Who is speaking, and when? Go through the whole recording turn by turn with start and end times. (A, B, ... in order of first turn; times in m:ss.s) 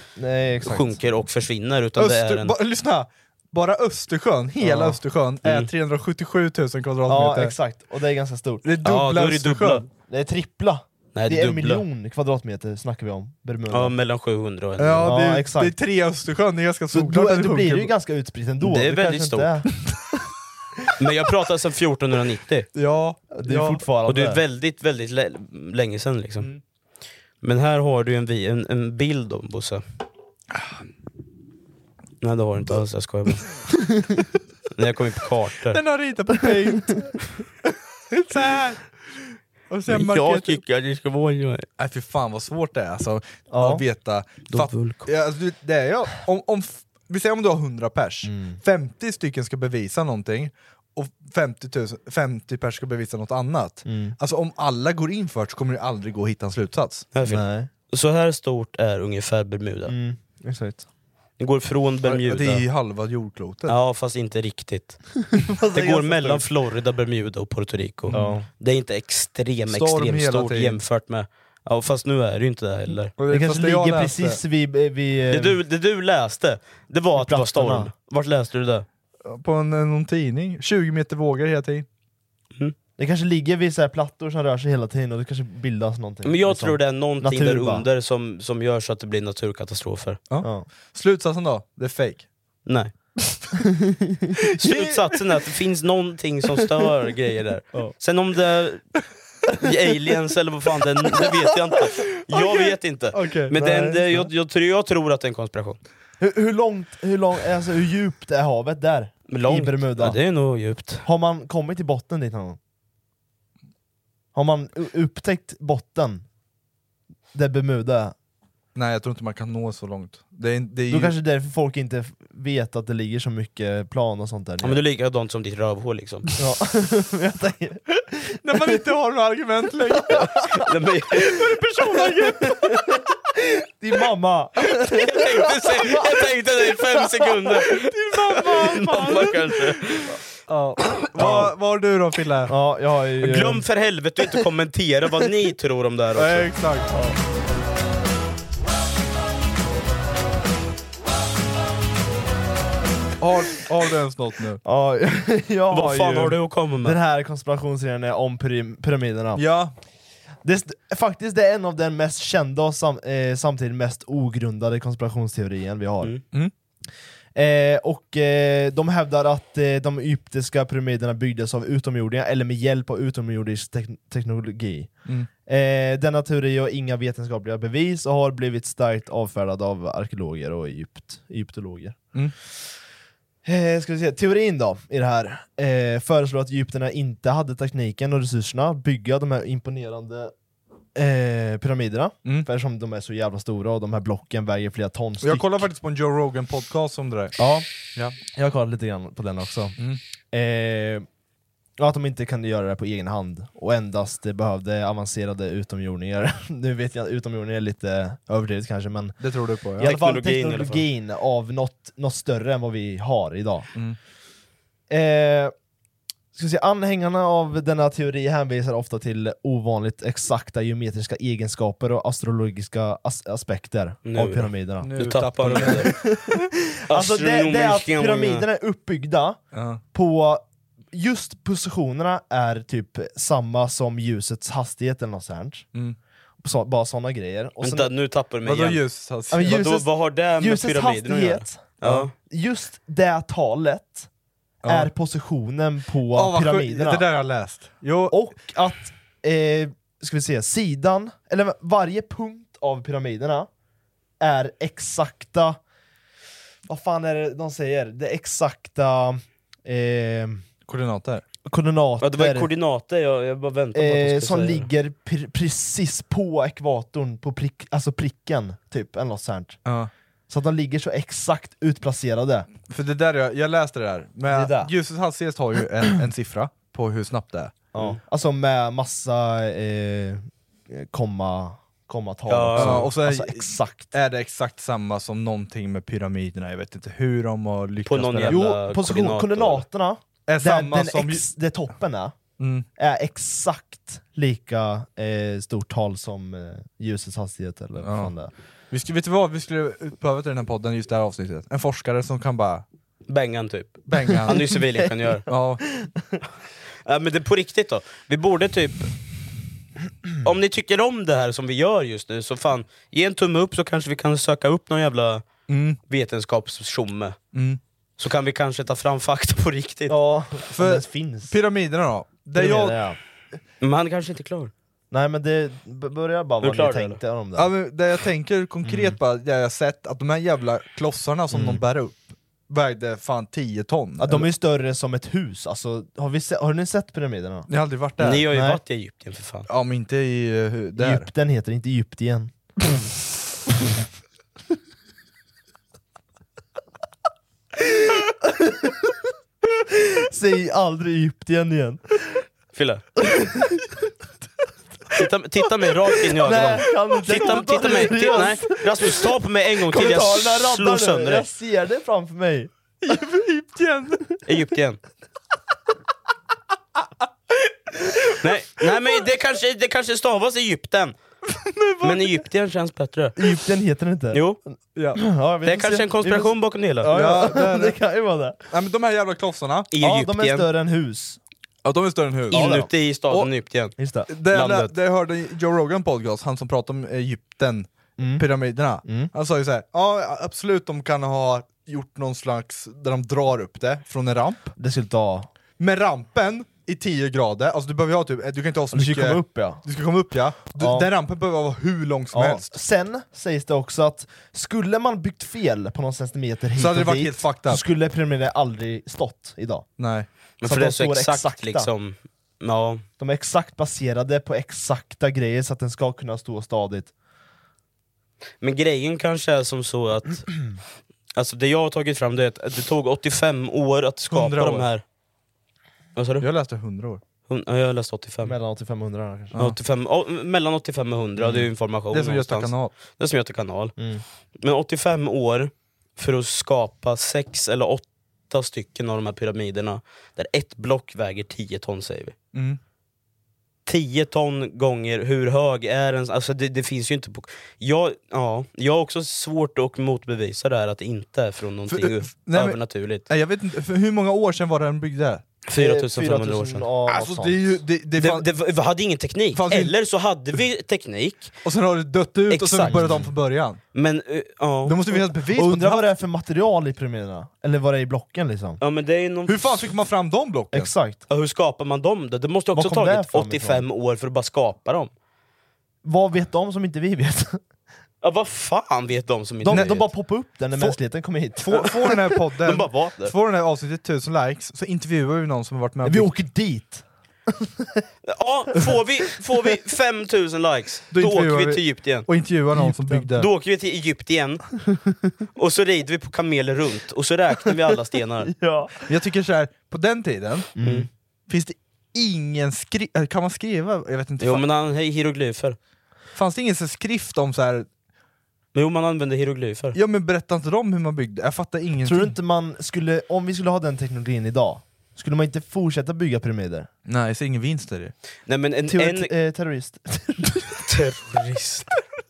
0:00.2-0:01.0 A
0:00.6-0:02.6 B
0:02.0-0:07.6 C
0:04.6-0:05.0 A
0:05.4-0:05.7 B
0:07.1-0:08.7 A
0:08.6-0:09.9 C
0:08.8-0:09.9 B
0:10.0-0:14.0 A
0:11.1-0:11.8 B
0:13.7-0:15.2 B
0:14.8-0:17.9 C
0:15.0-0:15.8 A
0:16.9-0:19.7 A
0:18.6-0:19.5 B
0:21.0-0:22.7 B
0:22.7-0:23.8 C
0:23.3-0:24.4 A
0:24.0-0:26.5 B
0:27.4-0:29.8 B
0:32.2-0:33.5 B
0:34.8-0:35.8 B
0:35.7-0:37.2 C
0:38.1-0:40.6 C
0:39.9-0:41.7 B
0:41.8-0:57.1 C
0:43.5-0:43.8 A
0:44.5-0:45.0 B
0:48.2-0:48.6 A
0:53.8-0:54.2 A
0:57.1-0:59.9 B
0:57.2-0:57.7 A
0:59.9-1:00.9 A
1:01.4-1:02.7 B
1:02.0-1:03.8 C
1:03.7-1:05.0 B
1:05.3-1:06.5 A
1:05.7-1:13.1 B
1:08.1-1:08.4 C
1:08.1-1:08.5 A
1:09.7-1:10.8 C
1:13.2-1:14.4 C
1:13.3-1:15.6 A
1:15.3-1:18.9 B
1:17.2-1:17.9 A
1:19.2-1:21.9 C
1:23.0-1:27.9 A
1:26.2-1:30.2 B
1:30.3-1:32.3 C
1:30.4-1:30.7 A
1:32.7-1:32.9 B
1:34.6-1:38.8 B
1:34.6-1:35.0 C
1:39.5-1:45.8 B
1:42.3-1:44.2 C
1:43.6-1:44.1 A
1:46.2-1:50.2 A
1:49.3-1:51.0 B
1:51.0-1:52.6 A
1:54.3-1:56.2 A
1:57.3-1:58.1 A
1:58.8-2:01.2 C
2:00.9-2:04.8 A
2:04.6-2:06.3 B
2:06.4-2:08.7 A
2:08.4-2:10.5 C
2:10.1-2:10.6 A
2:10.6-2:11.3 B
2:11.2-2:13.0 C
2:11.9-2:16.0 A
2:14.9-2:17.9 B
2:16.7-2:17.6 A
2:17.7-2:19.9 C
2:18.5-2:20.1 B
2:20.5-2:22.6 C
2:21.1-2:21.5 B
2:21.2-2:21.5 A
2:22.5-2:23.6 A
2:23.2-2:26.5 B
2:26.2-2:27.0 C
2:33.2-2:34.6 C
2:34.6-2:39.4 A
2:35.7-2:37.0 B
2:39.4-2:39.7 C
2:40.4-2:46.2 A
2:47.4-3:02.0 A
3:03.4-3:10.3 A
3:11.0-3:15.6 A
3:15.2-3:17.4 C
3:17.4-3:17.7 A
3:18.2-3:19.8 A
3:20.3-3:21.1 A
3:21.8-3:29.2 A
3:29.2-3:30.0 C
3:29.8-3:33.7 A
3:29.8-3:30.8 B
3:34.9-3:35.5 A
3:36.4-3:44.9 A
3:44.0-3:45.9 B
3:44.8-3:46.5 C
3:45.4-3:55.7 A
3:46.9-3:48.4 B
3:49.5-3:49.8 C
3:56.4-3:57.9 A
3:57.6-3:58.8 B
3:58.4-3:59.7 C
3:59.3-4:04.1 A
3:59.3-4:02.1 B
4:04.6-4:04.9 C
4:04.7-4:07.0 A
4:06.1-4:08.2 C
4:08.1-4:13.5 A
4:14.2-4:15.6 A
4:16.7-4:20.4 A
4:20.7-4:21.2 C
4:21.5-4:22.5 A
4:22.0-4:24.7 B
4:23.7-4:29.6 A
4:29.6-4:29.9 C
4:30.3-4:32.5 A
4:32.6-4:37.6 C
4:34.3-4:34.7 A
4:37.7-4:43.9 A
4:42.3-4:42.9 B
4:42.5-4:48.5 C
4:47.8-4:49.6 B
4:48.3-4:52.2 A
4:50.3-4:51.3 C
4:52.4-4:52.7 C
4:52.8-4:58.3 A
4:57.8-4:58.1 C
4:58.7-5:02.6 C
5:03.1-5:05.3 B
5:03.9-5:04.6 C
5:05.3-5:05.6 C
5:06.9-5:08.9 B
5:10.2-5:15.3 B
5:15.5-5:15.8 C
5:15.9-5:17.2 B
5:17.3-5:17.6 C
5:18.0-5:20.0 B
5:19.9-5:21.3 A
5:20.5-5:22.8 C
5:22.4-5:23.0 A
5:23.6-5:24.5 B
5:24.9-5:27.5 A
5:26.4-5:27.0 B
5:27.4-5:34.3 C
5:28.6-5:29.0 A
5:31.3-5:31.6 A
5:34.0-5:37.5 A
5:37.5-5:38.3 C
5:38.0-5:39.5 B
5:38.3-5:38.6 A
5:39.5-5:41.1 C
5:40.8-5:42.9 A
5:47.8-5:48.9 A
5:49.6-5:52.2 A
5:52.5-5:52.8 B
5:53.0-5:53.6 A
5:55.0-6:01.2 B
5:56.0-5:59.1 A
5:57.1-5:58.2 C
5:59.6-6:02.5 A
6:02.8-6:04.0 C
6:04.3-6:04.8 B
6:08.2-6:11.0 B
6:11.3-6:12.2 C
6:11.8-6:13.2 B
6:13.2-6:16.3 A
6:14.1-6:14.4 B
6:14.8-6:15.0 C
6:15.4-6:16.9 B
6:16.8-6:17.8 C
6:16.8-6:18.4 A
6:18.5-6:19.7 C
6:19.7-6:20.5 B
6:19.8-6:21.2 A
6:21.6-6:23.3 C
6:22.3-6:23.8 B
6:22.3-6:22.7 A
6:23.8-6:24.1 A
6:24.1-6:34.5 C
6:24.3-6:24.7 B
6:28.0-6:28.3 A
6:28.8-6:29.1 A
6:34.6-6:35.3 A
6:35.6-6:42.6 C
6:38.7-6:39.6 A
6:40.6-6:40.9 A
6:42.1-6:49.7 A
6:46.6-6:47.6 C
6:49.8-6:50.1 C
6:50.4-6:52.8 B
6:50.4-6:51.7 A
6:53.0-6:56.9 A
6:58.4-7:00.3 B
7:01.2-7:04.8 B
7:04.1-7:04.7 C
7:06.0-7:06.3 B
7:06.2-7:07.0 C
7:07.3-7:08.4 B
7:08.2-7:09.4 A
7:09.4-7:13.8 B
7:11.2-7:11.4 A
7:11.9-7:12.7 C
7:13.8-7:14.0 A
7:14.4-7:22.2 B
7:22.3-7:22.6 C
7:23.7-7:33.1 B
7:31.7-7:35.2 C
7:35.5-7:36.7 B
7:35.6-7:37.5 A
7:36.9-7:38.3 C
7:38.0-7:41.3 B
7:39.3-7:39.8 C
7:41.4-7:43.6 C
7:42.3-7:43.0 B
7:42.6-7:43.1 A
7:43.7-7:44.8 B
7:44.6-7:45.9 C
7:45.2-7:48.6 A
7:48.6-7:49.7 B
7:49.3-7:50.7 C
7:50.5-7:51.0 A
7:51.1-7:54.9 B
7:52.5-7:53.7 A
7:55.8-7:57.4 A
7:58.0-7:59.9 B
7:59.4-8:02.1 A
7:59.5-7:59.8 C
8:00.5-8:00.8 C
8:01.4-8:06.1 C
8:02.4-8:03.1 B
8:05.8-8:06.8 A
8:07.4-8:07.8 A
8:08.0-8:12.1 B
8:10.9-8:13.3 C
8:12.5-8:13.1 A
8:13.1-8:14.4 B
8:15.4-8:18.3 B
8:18.3-8:18.9 A
8:18.9-8:20.5 C
8:20.6-8:20.9 A
8:20.6-8:20.9 B
8:21.3-8:24.4 C
8:24.2-8:25.6 B
8:26.2-8:27.7 C
8:28.6-8:29.8 B
8:29.7-8:32.2 C
8:31.8-8:36.7 A
8:36.9-8:37.9 C
8:38.3-8:39.1 B
8:38.7-8:40.7 A
8:40.7-8:41.7 B